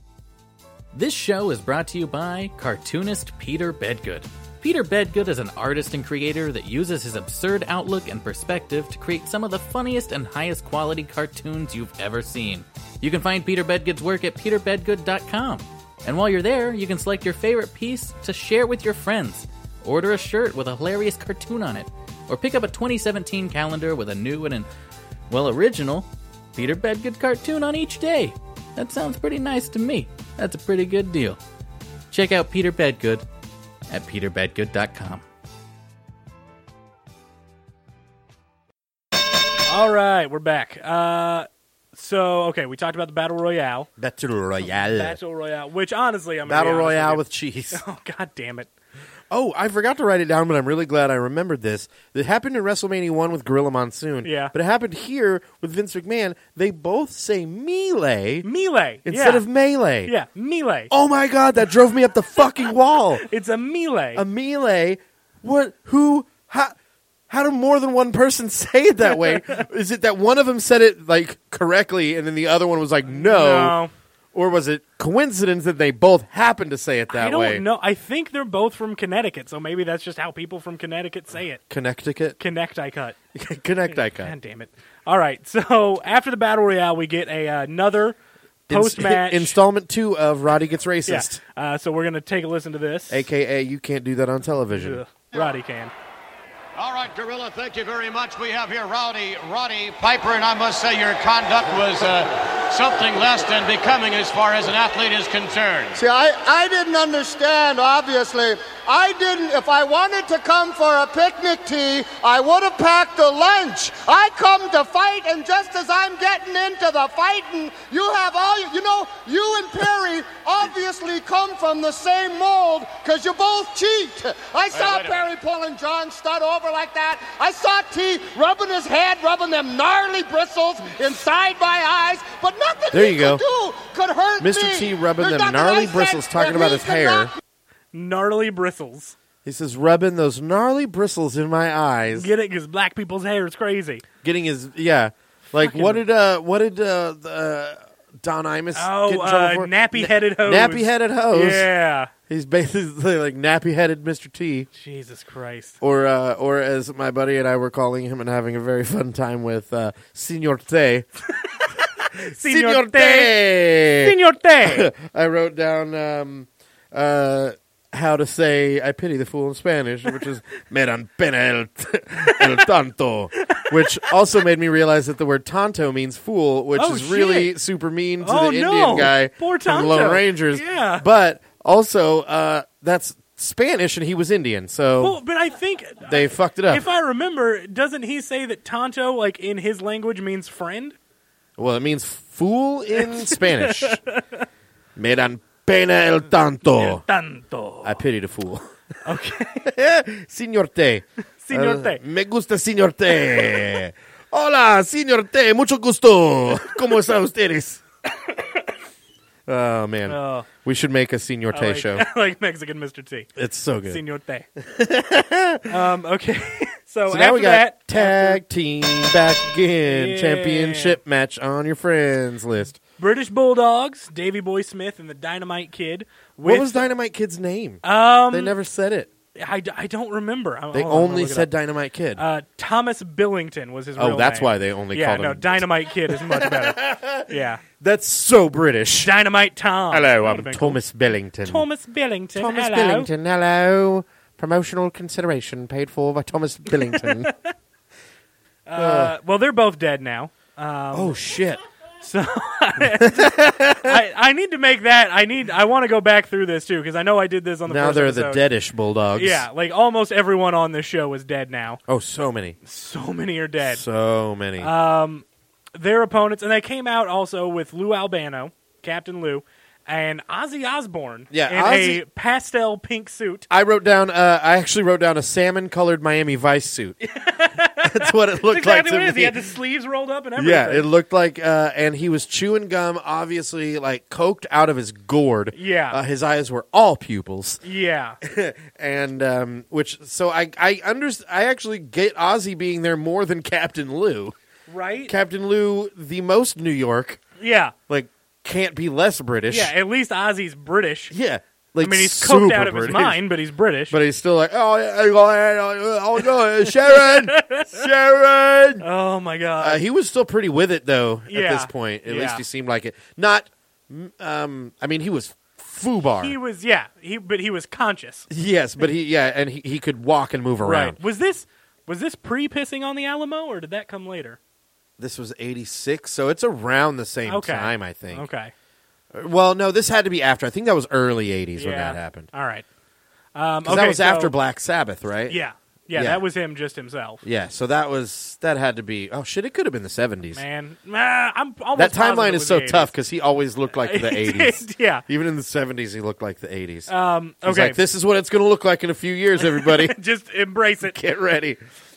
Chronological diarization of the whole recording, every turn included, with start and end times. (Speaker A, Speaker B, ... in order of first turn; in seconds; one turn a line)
Speaker A: 0.9-24.7
Speaker A: 25.3-31.4
Speaker A: 32.1-33.2
Speaker A: 33.9-35.2
Speaker B: 39.7-43.9
Speaker C: 44.0-45.2
Speaker B: 44.7-48.7
Speaker C: 46.4-47.8
Speaker C: 49.3-58.5
Speaker B: 54.2-54.5
Speaker B: 58.4-59.4
Speaker C: 59.0-60.1
Speaker B: 60.0-60.9
Speaker C: 60.9-63.2
Speaker B: 63.2-64.2
Speaker C: 64.1-66.7
Speaker C: 67.3-73.8
Speaker B: 69.1-69.7
Speaker B: 73.1-73.9
Speaker C: 74.3-77.6
Speaker B: 77.1-81.6
Speaker C: 81.7-82.4
Speaker B: 82.4-83.2
Speaker C: 83.3-84.3
Speaker B: 84.1-88.2
Speaker B: 88.7-89.6
Speaker C: 88.7-91.4
Speaker B: 91.1-93.3
Speaker C: 93.1-95.0
Speaker B: 94.7-95.9
Speaker D: 96.8-106.0
Speaker E: 106.0-137.3
Speaker D: 124.7-125.2
Speaker C: 132.9-133.4
Speaker C: 134.4-137.3
Speaker B: 137.9-139.1
Speaker C: 139.4-142.3
Speaker B: 142.1-144.0
Speaker C: 144.2-151.7
Speaker B: 145.6-146.0
Speaker B: 148.7-152.1
Speaker C: 152.3-154.7
Speaker B: 154.7-155.8
Speaker C: 155.8-161.1
Speaker C: 162.1-185.2
Speaker B: 162.2-164.9
Speaker B: 172.3-172.6
Speaker B: 173.3-174.1
Speaker B: 176.7-177.5
Speaker B: 178.2-181.0
Speaker B: 185.0-190.9
Speaker C: 186.0-186.8
Speaker C: 191.6-194.0
Speaker B: 193.0-194.4
Speaker C: 194.9-197.0
Speaker B: 196.6-198.0
Speaker C: 197.8-198.7
Speaker B: 199.0-199.7
Speaker C: 199.6-207.8
Speaker B: 201.4-202.0
Speaker B: 208.3-208.6
Speaker C: 209.5-212.0
Speaker B: 210.1-210.5
Speaker B: 211.5-213.3
Speaker C: 213.3-214.0
Speaker B: 213.8-214.5
Speaker C: 214.6-215.8
Speaker B: 215.7-218.4
Speaker C: 217.1-222.8
Speaker B: 219.8-221.0
Speaker B: 223.0-226.9
Speaker C: 226.4-229.1
Speaker B: 227.8-228.6
Speaker B: 229.4-231.5
Speaker C: 230.7-232.2
Speaker B: 232.2-237.6
Speaker C: 234.0-239.1
Speaker B: 239.0-240.8
Speaker C: 239.9-241.7
Speaker B: 241.4-243.1
Speaker C: 242.3-247.3
Speaker B: 246.7-247.5
Speaker B: 248.7-251.2
Speaker C: 248.8-249.1
Speaker C: 250.9-251.6
Speaker B: 252.0-258.4
Speaker C: 252.8-254.0
Speaker C: 257.6-259.4
Speaker B: 259.1-261.8
Speaker C: 261.9-262.6
Speaker B: 262.6-263.8
Speaker C: 263.6-264.7
Speaker B: 264.6-273.5
Speaker C: 271.3-272.0
Speaker C: 273.5-277.0
Speaker B: 277.0-280.9
Speaker C: 277.8-279.4
Speaker C: 280.4-287.6
Speaker B: 285.5-286.0
Speaker B: 287.6-288.2
Speaker C: 288.2-294.3
Speaker B: 294.7-295.1
Speaker C: 295.1-297.2
Speaker B: 297.4-297.7
Speaker C: 297.9-299.7
Speaker B: 299.5-301.1
Speaker C: 301.1-303.2
Speaker B: 301.8-304.0
Speaker C: 303.9-308.8
Speaker B: 306.7-307.9
Speaker B: 308.8-309.8
Speaker C: 309.6-316.3
Speaker B: 311.3-312.4
Speaker B: 316.2-318.3
Speaker C: 318.3-321.0
Speaker B: 320.6-324.4
Speaker C: 325.0-328.2
Speaker B: 327.3-328.5
Speaker C: 329.1-332.3
Speaker B: 331.6-332.6
Speaker B: 333.3-334.3
Speaker C: 333.6-335.4
Speaker B: 335.3-337.2
Speaker C: 335.9-336.2
Speaker C: 337.2-340.4
Speaker B: 340.3-342.9
Speaker C: 341.7-346.9
Speaker B: 343.8-345.0
Speaker B: 346.9-347.8
Speaker C: 347.4-350.0
Speaker B: 349.4-351.0
Speaker C: 350.8-351.6